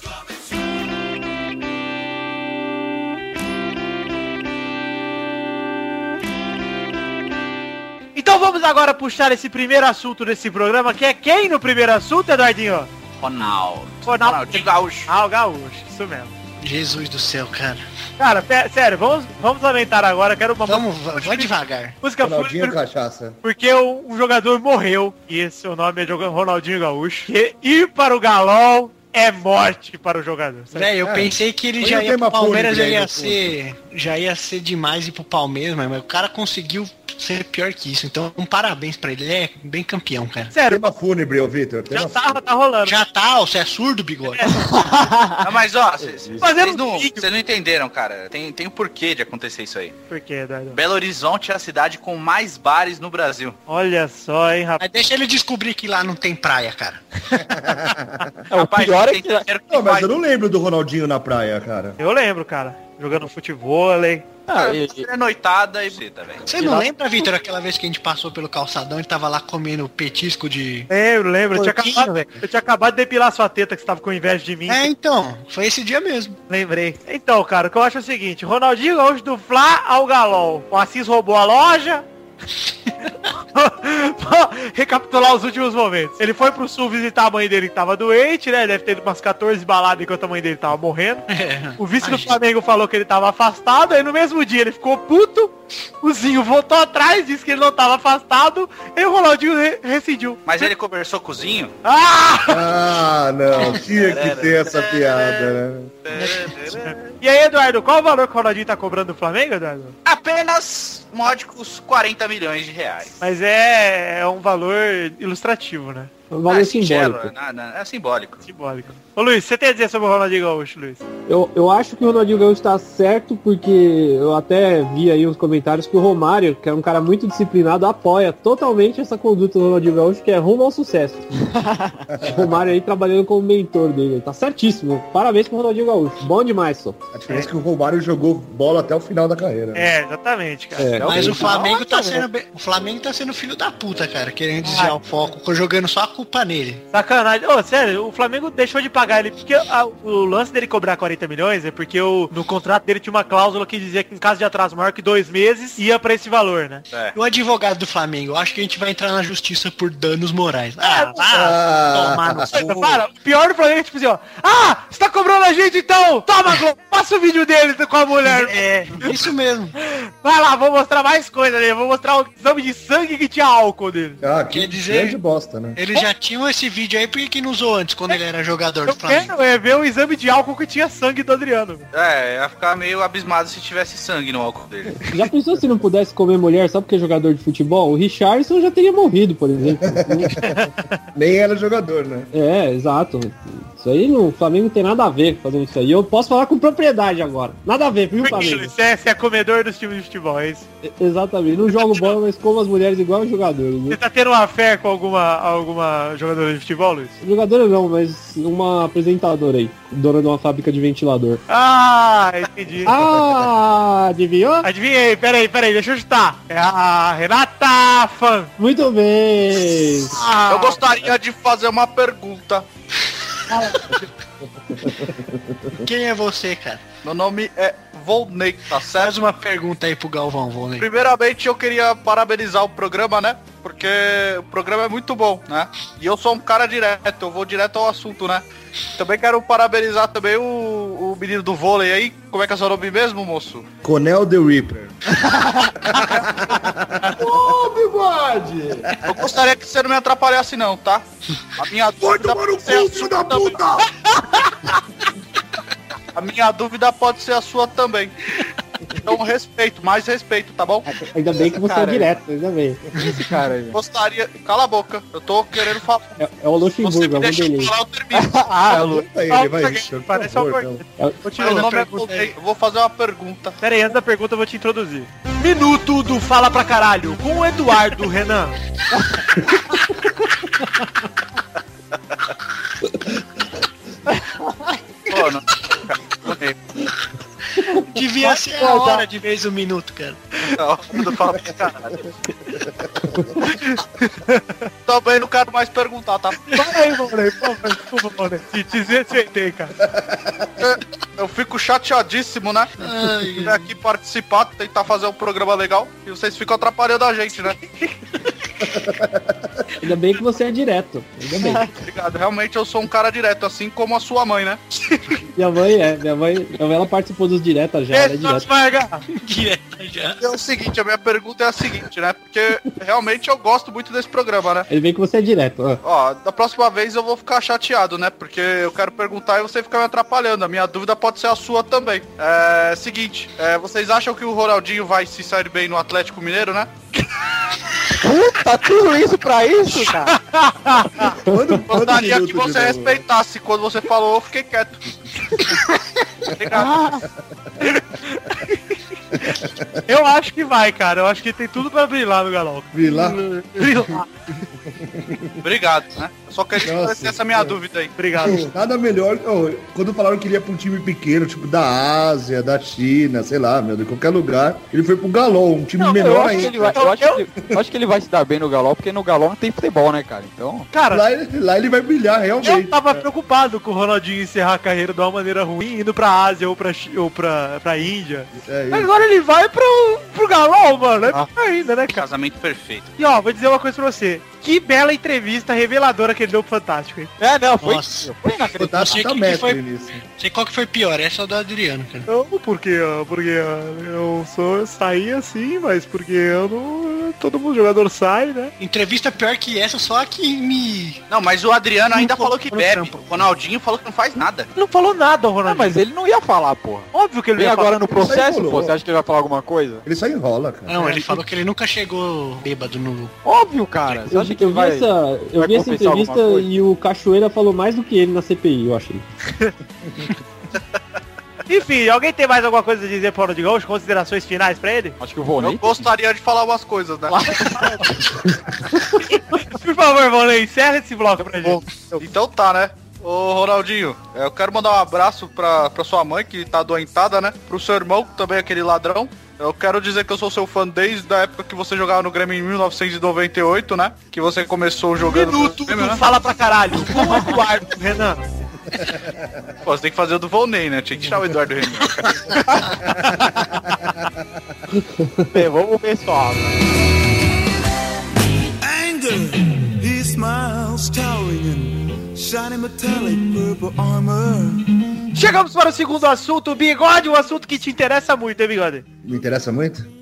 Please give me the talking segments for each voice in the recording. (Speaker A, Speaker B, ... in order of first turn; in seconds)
Speaker A: 8.2-12.9, 14.1-16.3, 18.2-22.8, 23.4-30.9, 40.5-40.9, 41.9-43.0, 44.3-45.2, 46.4-47.3, 50.1-50.8, 53.7-54.9, 62.0-64.3, 66.6-66.8, 70.9-74.9, 76.5-82.0, 83.2-100.7, 101.8-102.7, 106.2-110.0, 113.2-116.1, 118.5-121.0, 139.8-142.2, 144.6-145.0, 146.9-156.8, 160.8-161.2, 162.5-169.2, 169.8-174.2, 178.9-181.9, 190.4-190.9, 198.2-200.7, 201.7-202.2, 203.9-207.2, 211.5-213.0, 214.6-218.5, 220.1-220.8, 223.5-223.9, 269.3-272.3, 273.6-278.6, 288.3-289.0, 293.4-294.7, 296.5-299.8, 317.9-319.0, 340.1-341.1, 348.1-348.6, 349.9-354.1, 358.0-358.4, 365.9-367.2, 370.7-371.0, 372.4-382.1, 383.0-387.1, 392.1-398.5, 404.6-405.8, 406.9-407.8, 421.5-425.0, 427.4-427.7, 429.2-431.6, 445.1-448.2, 465.1-468.9
Speaker B: 13.2-15.1, 45.4-50.0, 50.7-53.6, 58.5-60.2, 64.5-66.5, 100.5-101.7, 103.6-107.1, 110.0-113.2, 116.5-118.4, 181.9-185.3, 220.1-222.7, 227.0-229.1, 230.8-238.4, 239.0-243.7, 249.0-251.0, 251.6-253.7, 256.1-258.4, 259.0-260.9, 263.7-266.2, 266.8-268.3, 271.4-273.6, 285.1-286.9, 290.6-292.1, 294.9-296.6, 300.6-307.6, 311.8-314.6, 320.2-324.7, 325.8-336.7, 341.7-344.9, 346.3-347.1, 355.4-357.9, 382.0-382.9, 401.1-404.5, 425.4-427.5, 431.4-446.0, 449.6-452.4
Speaker C: 16.6-17.8, 20.6-22.0, 30.7-40.5, 42.9-44.6, 54.8-57.0, 66.4-70.9, 71.5-72.1, 74.7-76.4, 91.3-92.4, 141.1-146.8, 157.2-162.9, 168.2-169.8, 174.5-175.2, 175.8-179.3, 225.8-226.8, 228.9-230.9, 263.0-263.3, 287.6-290.2, 302.8-303.7, 319.1-320.2, 387.6-388.1, 388.8-389.6, 390.2-392.1, 398.6-401.0, 401.9-403.2, 410.7-413.1
Speaker D: 22.2-23.4, 31.0-33.5, 40.7-42.4, 57.4-58.4, 59.7-62.0, 102.5-105.9, 132.1-132.6, 137.1-139.9, 161.3-162.7, 174.2-175.8, 189.8-190.6, 191.1-192.3, 224.8-225.8, 243.8-245.0, 245.8-247.4, 248.9-249.3, 268.7-270.8, 292.7-293.2, 299.9-300.6, 308.6-309.6, 341.2-343.0, 346.5-347.8, 349.1-349.8, 352.7-353.2, 354.7-355.4, 356.6-357.6, 358.2-366.9, 370.9-372.8, 378.4-378.9, 388.6-390.0, 407.9-408.8, 409.9-410.8, 448.7-449.5, 453.0-453.9, 469.0-469.9
Speaker E: 58.5-59.5, 64.5-65.1, 131.7-132.0, 141.1-141.4, 261.6-262.1, 262.9-263.8, 268.1-269.1, 337.9-340.2, 365.8-370.7, 387.2-389.2, 405.4-409.9, 413.2-416.5, 425.0-425.9, 427.2-427.8, 455.3-456.6
Speaker F: 116.3-117.3, 121.3-131.3, 132.2-137.0, 140.8-141.5, 185.1-190.4, 192.3-198.7, 200.8-204.0, 207.2-211.4, 212.8-214.7, 218.6-220.2, 260.9-262.8, 266.2-267.8, 309.8-311.7, 315.4-318.5, 324.7-325.8, 341.2-341.6, 414.0-419.0
Speaker G: 247.2-248.9, 252.0-253.9, 458.6-464.9